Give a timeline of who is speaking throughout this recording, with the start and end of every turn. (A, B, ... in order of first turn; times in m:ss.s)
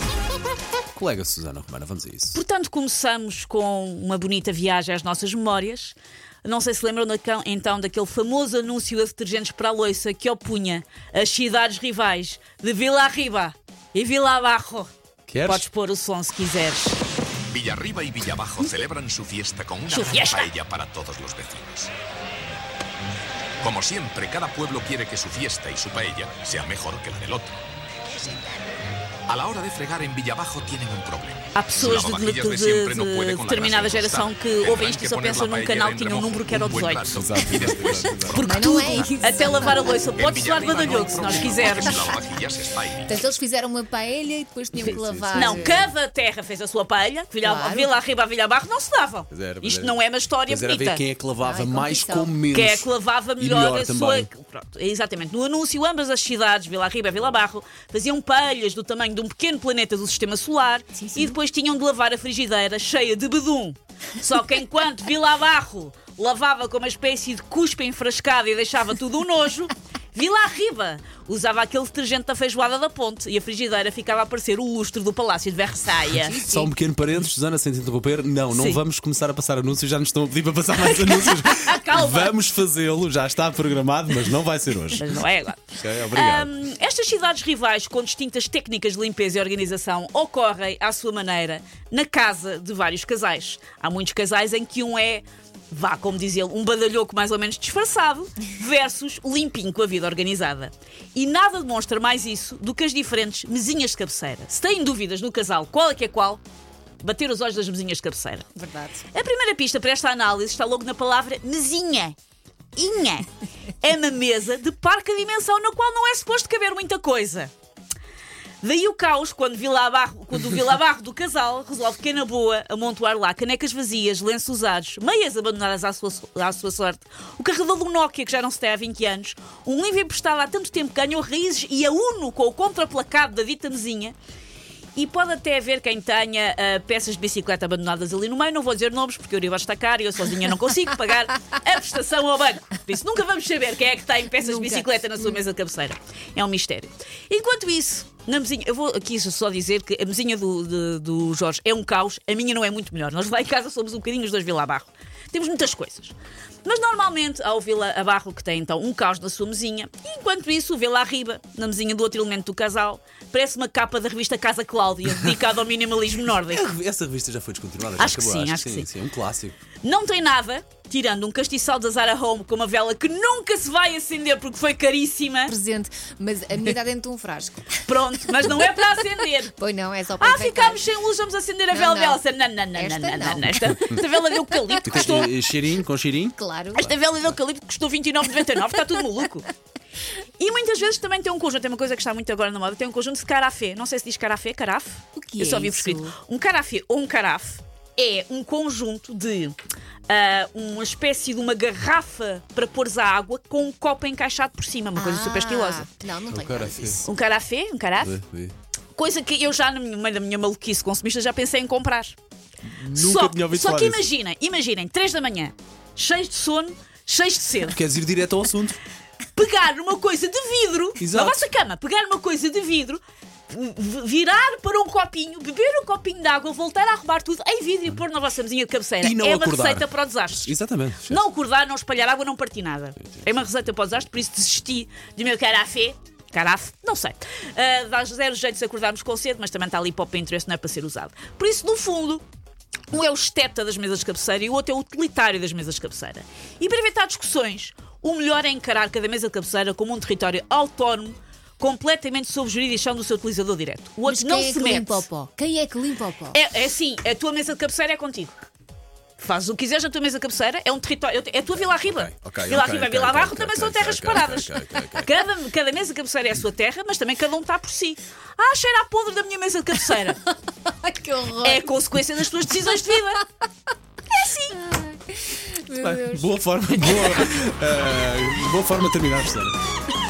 0:00.9-0:02.4 A
0:02.3-0:14.9 B
0:15.3-0:15.6 A
0:15.4-0:17.0 B
0:17.5-0:21.9 C
0:19.9-0:20.5 B
0:23.6-0:27.6 C
0:29.3-0:43.1 C
0:31.5-0:37.2 B
0:37.1-0:38.4 A
0:38.3-0:42.1 B
0:38.4-0:40.1 D
0:40.7-0:42.2 D
0:43.0-0:45.9 D
0:44.7-0:45.6 A
0:45.3-0:51.0 B
0:47.4-0:47.9 D
0:49.3-0:54.3 A
0:51.4-0:52.4 D
0:52.5-1:16.7 B
1:01.0-1:01.4 D
1:16.1-1:25.2 A
1:18.5-1:18.8 B
1:20.7-1:22.3 B
1:24.9-1:46.4 B
1:25.8-1:26.5 A
1:47.0-1:48.5 B
1:48.6-1:49.0 D
1:49.1-1:52.2 B
1:52.8-1:53.3 B
1:53.8-1:57.5 B
1:58.6-2:14.2 B
2:15.0-2:46.6 B
2:24.4-2:25.0 D
2:46.5-2:49.6 A
2:48.0-2:48.9 B
2:49.8-2:55.6 B
2:55.5-2:57.8 D
2:57.8-2:59.5 B
2:59.5-3:00.8 D
3:00.2-3:05.3 B
3:01.7-3:03.6 D
3:04.8-3:06.4 A
3:06.3-3:07.0 D
3:06.7-3:09.5 B
3:10.4-3:19.6 B
3:15.2-3:16.1 D
3:20.1-3:25.9 B
3:24.9-3:27.1 D
3:26.3-3:27.0 A
3:27.0-3:28.2 B
3:28.0-3:28.5 A
3:28.9-3:32.2 B
3:32.6-3:34.0 A
3:32.9-3:37.8 B
3:37.7-3:38.8 A
3:39.3-3:50.5 B
3:41.0-3:41.5 A
3:49.0-3:51.2 A
3:51.0-4:02.2 B
3:53.0-3:53.3 A
4:02.9-4:15.0 B
4:14.0-4:16.4 D
4:16.3-4:18.3 B
4:19.2-4:30.2 B
4:21.8-4:25.1 A
4:30.5-4:31.8 D
4:31.4-4:33.2 B
4:34.1-4:34.6 B
4:34.5-4:36.3 D
4:35.8-4:39.6 A
4:36.8-4:37.2 D